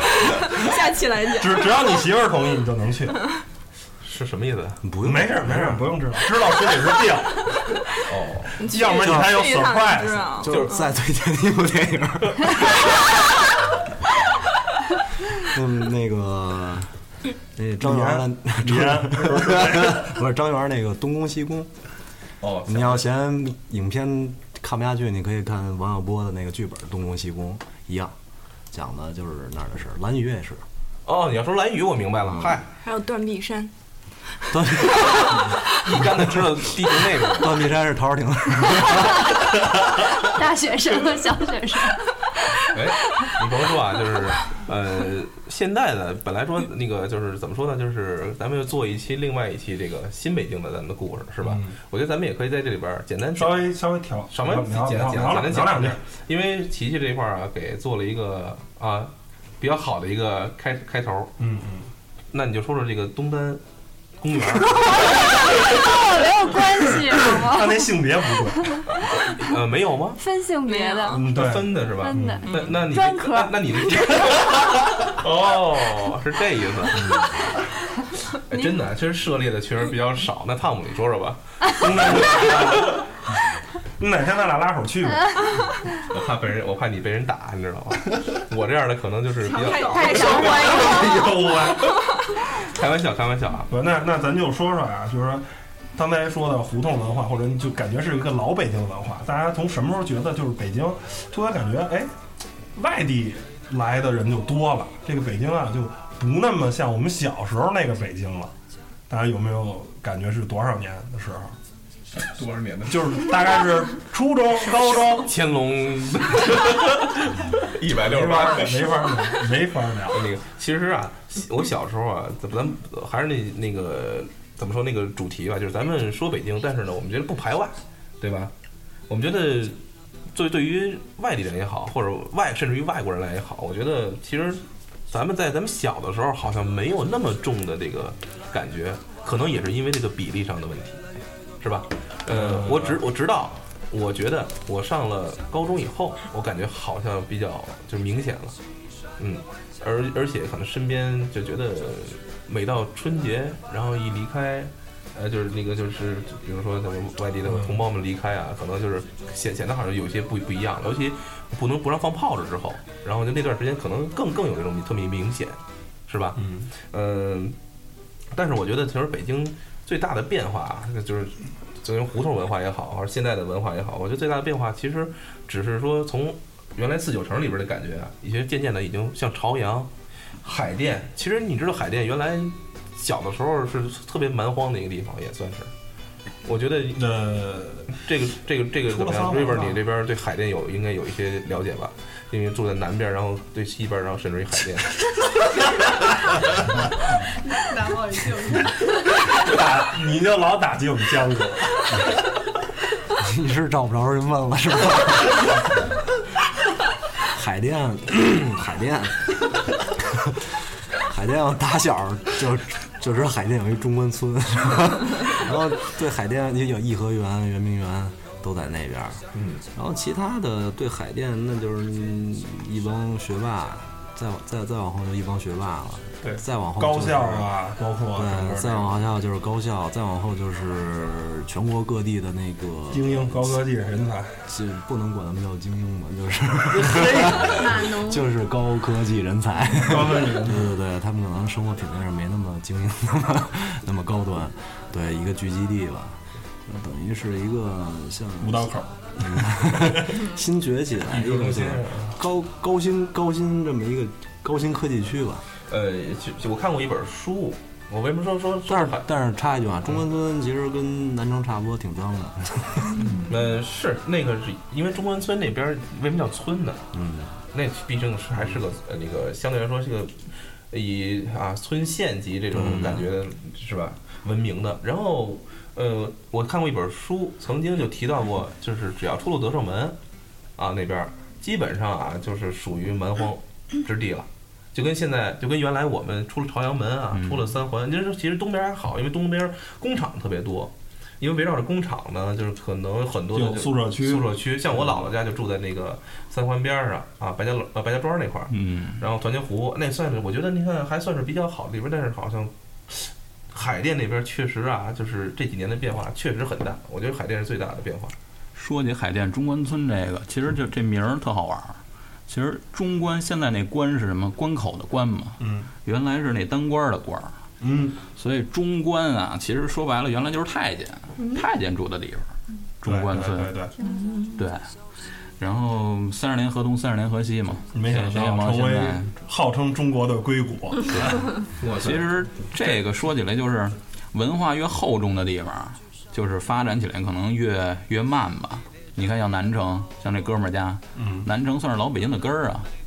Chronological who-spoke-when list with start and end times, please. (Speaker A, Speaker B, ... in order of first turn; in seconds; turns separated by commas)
Speaker A: 0.5-1.8, Speaker B: 1.3-3.3, Speaker C: 4.0-4.8, Speaker D: 4.8-6.1, Speaker B: 5.0-7.5, Speaker C: 8.1-8.6, Speaker A: 8.6-10.6, Speaker B: 8.6-10.4, Speaker D: 9.0-9.6, Speaker D: 10.4-12.8, Speaker C: 10.5-10.8, Speaker D: 15.4-16.9, Speaker D: 17.6-21.7, Speaker B: 17.8-20.2, Speaker C: 22.4-23.1, Speaker D: 22.7-28.1, Speaker D: 28.7-30.6, Speaker C: 31.1-32.7, Speaker A: 32.8-33.7, Speaker D: 34.5-35.3, Speaker C: 35.8-37.5, Speaker D: 37.4-39.3, Speaker E: 38.8-39.3, Speaker E: 40.1-42.4, Speaker C: 42.7-53.7, Speaker B: 51.4-51.8, Speaker B: 53.4-56.0, Speaker C: 54.3-61.3, Speaker B: 61.4-61.9, Speaker C: 62.3-63.6, Speaker C: 64.2-65.1, Speaker E: 64.8-68.0, Speaker B: 67.3-68.9, Speaker C: 68.9-70.2, Speaker E: 70.2-74.0, Speaker A: 70.7-71.2, Speaker B: 71.1-72.5, Speaker C: 71.2-77.1, Speaker A: 72.5-72.8, Speaker C: 78.3-82.9, Speaker B: 81.8-83.0, Speaker B: 84.0-85.4, Speaker C: 86.1-90.9, Speaker F: 89.4-90.9, Speaker E: 89.8-91.3, Speaker B: 90.1-92.0, Speaker C: 92.6-93.7, Speaker B: 93.7-102.1, Speaker B: 102.8-108.5, Speaker B: 109.1-111.5, Speaker C: 112.2-113.3, Speaker B: 112.9-115.3, Speaker C: 115.2-119.2, Speaker B: 118.0-120.2, Speaker C: 120.1-128.5, Speaker C: 129.1-129.8, Speaker C: 130.3-141.0, Speaker C: 141.6-148.6, Speaker B: 142.3-143.0, Speaker C: 149.2-167.6, Speaker B: 166.4-166.7, Speaker C: 168.3-179.9, Speaker C: 180.4-185.7, Speaker C: 186.4-187.0, Speaker B: 187.0-188.0, Speaker C: 188.0-194.9, Speaker B: 188.9-189.8, Speaker F: 197.6-198.7, Speaker B: 199.2-202.0, Speaker D: 203.2-205.5, Speaker D: 207.3-219.2, Speaker C: 219.3-219.6, Speaker D: 219.8-227.5, Speaker B: 226.2-228.9, Speaker D: 228.1-233.6, Speaker B: 232.9-234.3, Speaker D: 234.5-255.4, Speaker B: 236.7-237.8, Speaker E: 237.5-238.2, Speaker B: 239.8-240.7, Speaker B: 248.4-250.2, Speaker C: 251.1-252.2, Speaker C: 255.7-259.1, Speaker D: 258.7-263.1, Speaker C: 263.2-266.9, Speaker D: 266.9-267.4, Speaker C: 267.5-270.2, Speaker C: 270.7-280.0, Speaker D: 272.5-273.1, Speaker C: 280.6-308.1, Speaker G: 287.1-287.5, Speaker B: 293.3-294.4, Speaker G: 298.5-299.0, Speaker G: 308.6-317.4, Speaker B: 315.4-315.7, Speaker B: 317.6-318.0, Speaker G: 318.2-322.3, Speaker G: 322.8-323.6, Speaker B: 322.8-323.7, Speaker E: 323.8-324.1, Speaker G: 324.4-324.7, Speaker G: 325.4-329.1, Speaker B: 327.7-331.4, Speaker G: 330.9-342.7, Speaker C: 331.6-332.1, Speaker B: 341.0-341.3